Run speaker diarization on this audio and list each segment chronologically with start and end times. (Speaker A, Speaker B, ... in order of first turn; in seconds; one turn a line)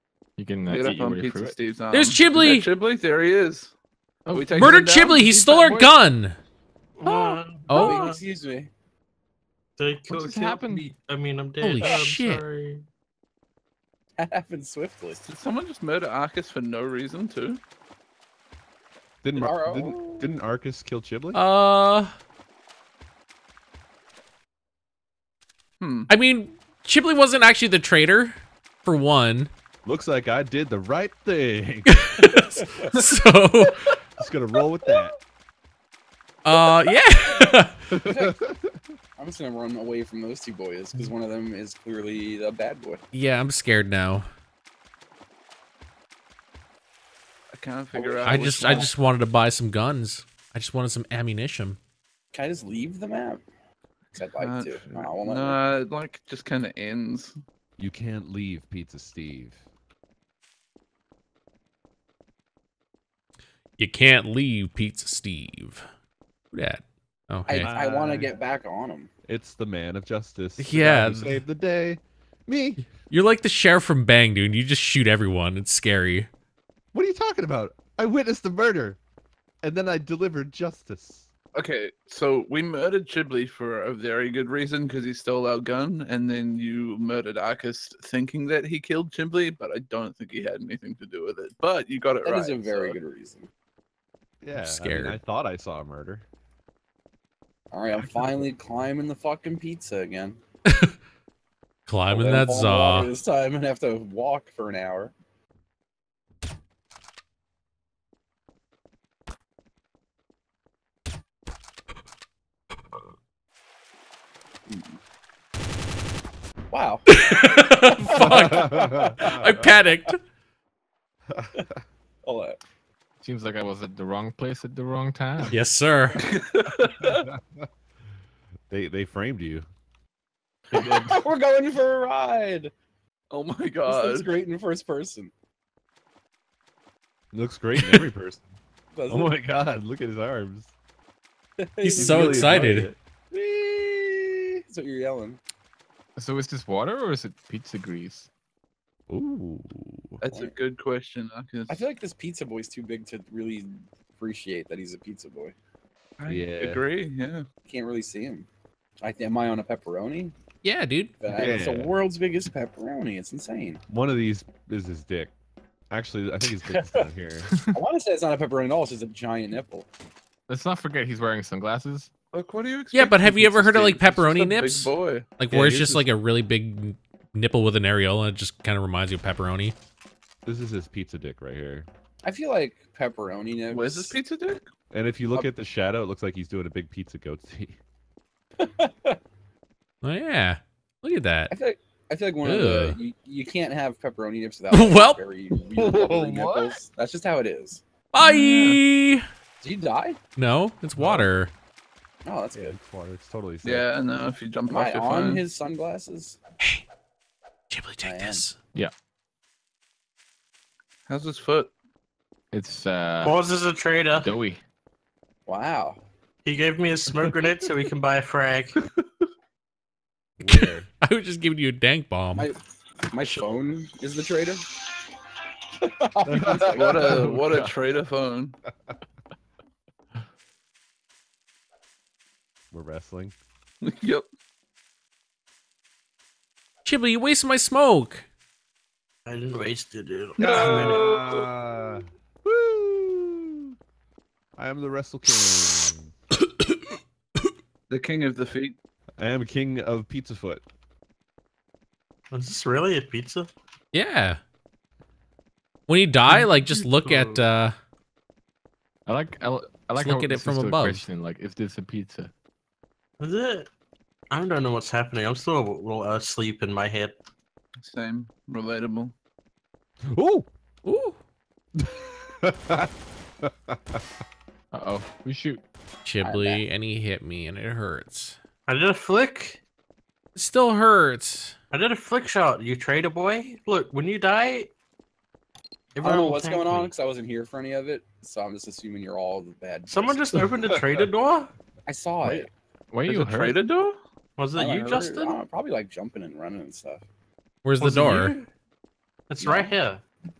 Speaker A: 0.4-1.6
Speaker B: 0.7-3.7
Speaker C: 1.9-2.7
Speaker A: 4.2-5.9
Speaker B: 4.3-5.2
Speaker C: 4.6-6.3
Speaker D: 7.0-8.2
Speaker C: 7.7-8.1
Speaker E: 7.7-8.7
Speaker D: 9.8-12.8
Speaker A: 10.1-10.9
Speaker C: 11.6-12.4
Speaker E: 14.2-15.2
Speaker B: 15.2-17.6
Speaker F: 19.2-21.4
Speaker E: 19.4-20.3
Speaker C: 21.3-22.1
Speaker B: 25.8-26.1
Speaker C: 26.1-29.5
Speaker F: 29.8-32.2
Speaker C: 31.9-33.9
Speaker E: 32.3-32.9
Speaker F: 34.2-35.1
Speaker C: 36.4-37.8
Speaker E: 36.5-38.4
Speaker F: 37.9-38.8
Speaker E: 39.2-43.0
Speaker C: 43.1-44.2
Speaker B: 47.5-48.9
Speaker E: 47.9-48.9
Speaker C: 48.2-51.8
Speaker E: 52.3-53.4
Speaker E: 54.1-55.6
Speaker B: 54.4-57.3
Speaker F: 57.8-59.6
Speaker C: 63.8-65.8
Speaker C: 66.5-67.7
Speaker E: 67.5-69.1
Speaker F: 67.5-68.3
Speaker F: 69.3-72.9
Speaker C: 70.6-71.4
Speaker C: 73.1-76.3
Speaker F: 76.9-79.0
Speaker F: 79.6-81.3
Speaker B: 81.5-93.0
Speaker E: 92.2-93.5
Speaker F: 94.4-96.2
Speaker C: 94.6-95.2
Speaker E: 97.7-100.4
Speaker C: 100.7-100.9
Speaker C: 101.9-103.1
Speaker E: 102.1-105.1
Speaker E: 114.7-115.0
Speaker E: 116.7-117.1
Speaker C: 117.1-120.2
Speaker E: 118.0-119.5
Speaker F: 118.2-119.8
Speaker F: 121.3-121.6
Speaker E: 122.2-122.6
Speaker A: 123.2-125.5
Speaker C: 125.5-126.2
Speaker B: 126.1-127.3
Speaker F: 127.1-127.7
Speaker F: 128.7-129.7
Speaker E: 130.7-132.7
Speaker B: 133.3-134.3
Speaker E: 133.9-135.3
Speaker F: 137.3-138.4
Speaker E: 138.9-139.3
Speaker F: 139.1-140.7
Speaker E: 141.6-142.8
Speaker C: 141.8-142.9
Speaker F: 141.9-142.9
Speaker E: 143.3-145.4
Speaker A: 146.2-148.3
Speaker F: 149.1-150.2
Speaker B: 150.2-151.9
Speaker E: 150.3-150.5
Speaker E: 151.7-155.5
Speaker B: 156.2-157.4
Speaker F: 156.3-156.8
Speaker E: 157.7-158.5
Speaker E: 159.0-160.3
Speaker C: 160.6-161.2
Speaker E: 161.2-163.8
Speaker F: 161.3-161.9
Speaker F: 163.9-165.3
Speaker F: 165.9-167.5
Speaker E: 166.7-167.0
Speaker E: 167.7-169.9
Speaker A: 170.5-172.1
Speaker B: 172.3-176.0
Speaker C: 172.9-179.7
Speaker F: 180.4-181.9
Speaker E: 182.2-184.2
Speaker B: 183.7-184.7
Speaker F: 184.9-187.8
Speaker E: 188.6-189.2
Speaker C: 190.0-191.5
Speaker E: 191.5-197.8
Speaker C: 192.4-193.0
Speaker C: 194.7-195.2
Speaker F: 195.7-196.8
Speaker C: 198.1-199.2
Speaker B: 198.2-198.7
Speaker E: 199.6-200.2
Speaker C: 200.3-201.5
Speaker E: 202.2-202.8
Speaker F: 202.5-203.9
Speaker B: 203.6-205.4
Speaker E: 204.7-206.4
Speaker C: 207.7-208.6
Speaker E: 208.0-208.4
Speaker B: 211.1-211.7
Speaker A: 212.5-213.4
Speaker D: 213.2-214.3
Speaker A: 214.2-214.6
Speaker E: 215.5-216.0
Speaker D: 216.4-218.8
Speaker F: 220.4-220.9
Speaker C: 220.4-222.5
Speaker E: 222.3-224.8
Speaker E: 225.8-227.4
Speaker F: 226.2-227.2
Speaker B: 226.7-228.5
Speaker A: 227.4-227.7
Speaker F: 232.7-233.3
Speaker B: 233.8-234.2
Speaker C: 236.8-238.2
Speaker D: 239.2-241.1
Speaker B: 240.4-241.5
Speaker F: 240.4-243.7
Speaker F: 244.6-246.1
Speaker B: 247.9-248.8
Speaker F: 249.2-250.6
Speaker D: 252.3-253.5
Speaker C: 253.9-254.4
Speaker C: 255.9-257.7
Speaker D: 256.7-257.4
Speaker A: 259.1-262.3
Speaker C: 259.9-261.1
Speaker D: 263.2-263.7
Speaker D: 264.3-267.2
Speaker B: 267.8-269.1
Speaker F: 270.1-270.5
Speaker C: 270.8-271.2
Speaker F: 271.8-274.0
Speaker A: 274.7-275.6
Speaker C: 276.0-278.4
Speaker E: 276.2-276.6
Speaker D: 278.7-279.6
Speaker C: 280.4-281.5
Speaker D: 281.7-284.7
Speaker D: 285.9-286.9
Speaker E: 286.0-290.5
Speaker D: 289.9-291.5
Speaker F: 290.5-291.1
Speaker E: 291.9-292.5
Speaker A: 292.2-293.6
Speaker B: 293.1-294.0
Speaker D: 294.4-295.4
Speaker E: 294.5-297.0
Speaker C: 297.6-298.4
Speaker A: 297.8-298.4
Speaker D: 299.3-300.0
Speaker E: 299.4-299.7